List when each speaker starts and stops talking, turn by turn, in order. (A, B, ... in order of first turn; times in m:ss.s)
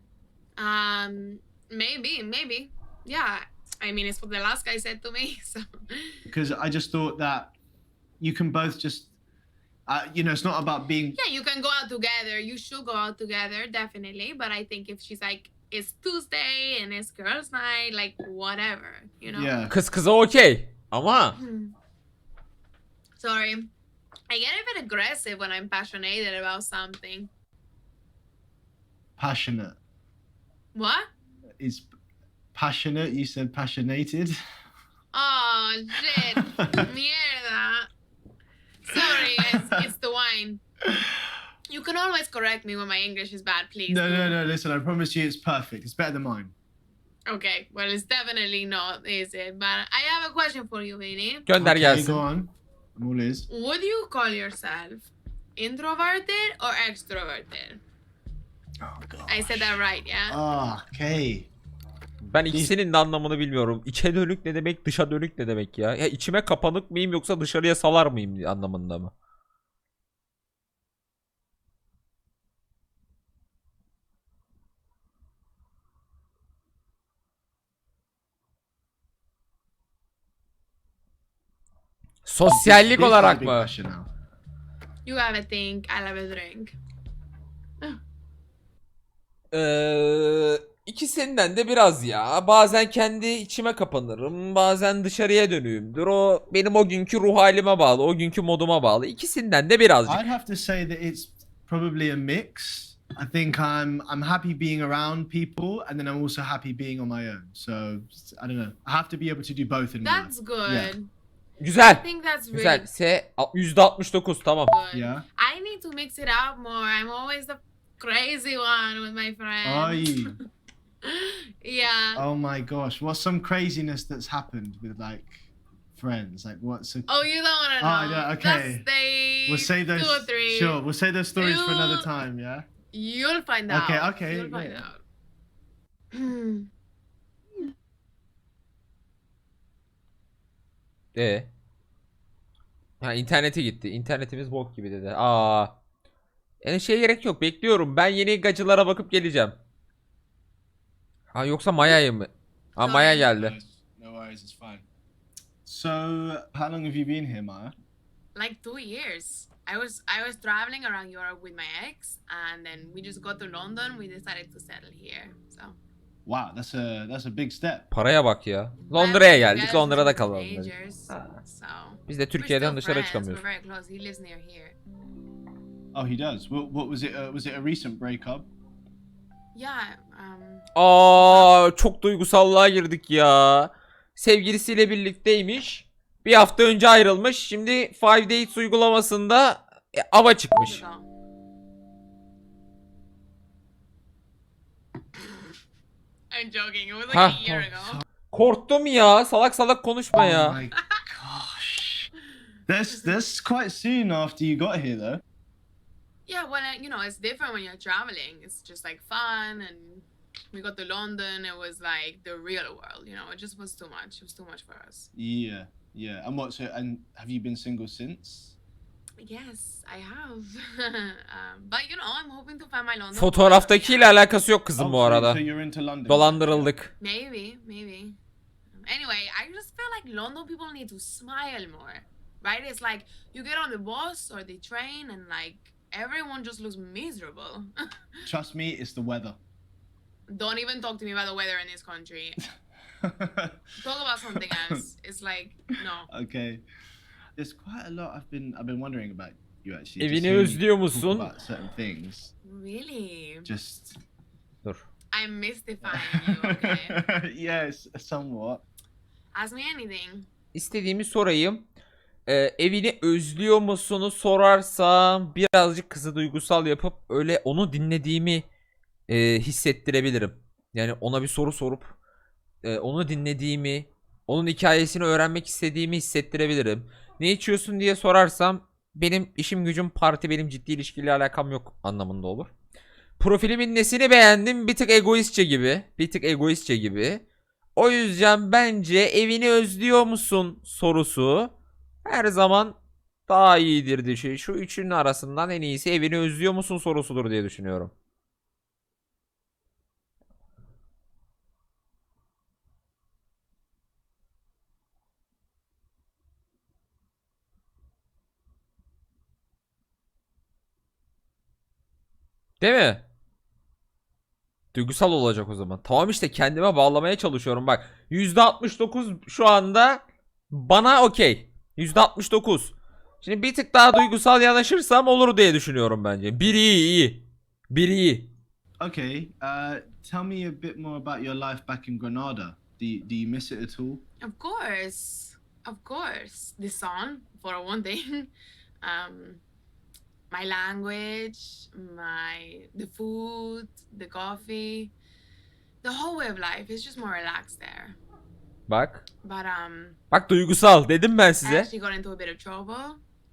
0:00.6-0:06.2 A
0:06.3-0:07.5 B
0:08.2-0:09.1 B
0:09.9-0:11.2 B
0:11.2-0:19.5 A
0:19.3-0:19.7 B
0:19.7-0:21.4 C
0:21.4-0:21.7 A
0:23.2-0:23.7 A
0:24.3-0:27.3 A
0:29.2-0:29.8 B
0:30.7-0:31.1 A
0:31.6-0:31.8 B
0:32.5-0:34.3 B
0:35.1-0:37.9 A
0:36.4-0:36.9 B
0:38.8-0:40.6 A
0:38.9-0:39.9 B
0:40.9-0:41.2 B
0:41.7-0:44.4 A
0:43.9-0:46.5 B
0:47.3-0:51.5 A
0:51.4-0:52.2 C
0:51.6-0:53.5 B
0:53.5-0:57.8 A
0:58.8-1:01.5 B
0:59.3-1:00.4 A
1:02.3-1:09.1 C
1:02.4-1:02.7 B
1:22.2-1:23.7 C
1:22.5-1:24.1 B
1:25.0-1:26.7 A
1:29.5-1:40.3 C
1:40.0-1:50.9 B
1:50.0-1:51.1 A
1:51.6-1:54.7 C
1:51.9-1:52.8 A
1:54.7-2:00.4 A
1:54.9-1:55.2 B
1:59.6-2:00.4 B
2:01.0-2:02.2 A
2:02.1-2:07.1 B
2:07.1-2:10.8 A
2:07.8-2:08.8 B
2:09.5-2:12.7 B
2:11.4-2:12.1 A
2:12.9-2:15.0 A
2:13.7-2:14.8 B
2:16.1-2:16.7 A
2:21.1-2:21.5 C
2:23.0-2:25.7 C
2:26.6-2:29.6 C
2:31.3-2:33.6 C
2:32.8-2:33.3 A
2:33.3-2:34.9 B
2:35.6-2:37.7 B
2:38.3-2:45.8 A
2:46.2-2:47.8 B
2:47.9-2:51.4 C
2:48.9-2:54.7 A
2:52.1-2:53.4 C
2:55.9-2:58.5 B
2:59.5-3:01.5 A
3:00.7-3:10.8 C
3:10.5-3:11.1 A
3:16.3-3:18.0 A
3:17.1-3:17.7 C
3:18.3-3:20.6 C
3:20.1-3:22.1 B
3:22.7-3:25.2 B
3:26.3-3:35.1 A
3:35.1-3:38.5 B
3:39.2-3:44.2 A
3:43.1-3:45.4 C
3:44.8-3:46.7 B
3:46.1-3:46.9 C
3:47.0-3:48.2 A
3:48.8-3:58.2 A
3:58.2-3:59.4 B
4:00.3-4:02.4 A
4:03.0-4:03.7 B
4:03.8-4:06.1 A
4:04.3-4:04.8 B
4:06.1-4:06.6 B
4:07.4-4:12.3 B
4:10.0-4:11.3 C
4:12.4-4:13.5 A
4:13.4-4:14.0 B
4:15.1-4:17.0 A
4:15.8-4:18.6 B
4:19.3-4:20.3 A
4:20.5-4:21.6 C
4:22.2-4:28.5 C
4:29.1-4:31.9 C
4:32.6-4:42.5 C
4:43.2-4:47.2 C
4:47.8-4:57.9 C
5:12.6-5:13.1 C
5:14.7-5:28.3 C
5:28.8-5:34.0 B
5:34.2-5:38.3 A
5:38.8-5:39.4 A
5:40.3-5:44.9 A
5:45.8-5:48.0 A
5:48.7-5:49.0 C
5:49.2-5:50.0 A
5:50.1-5:51.7 C
5:51.4-5:53.0 A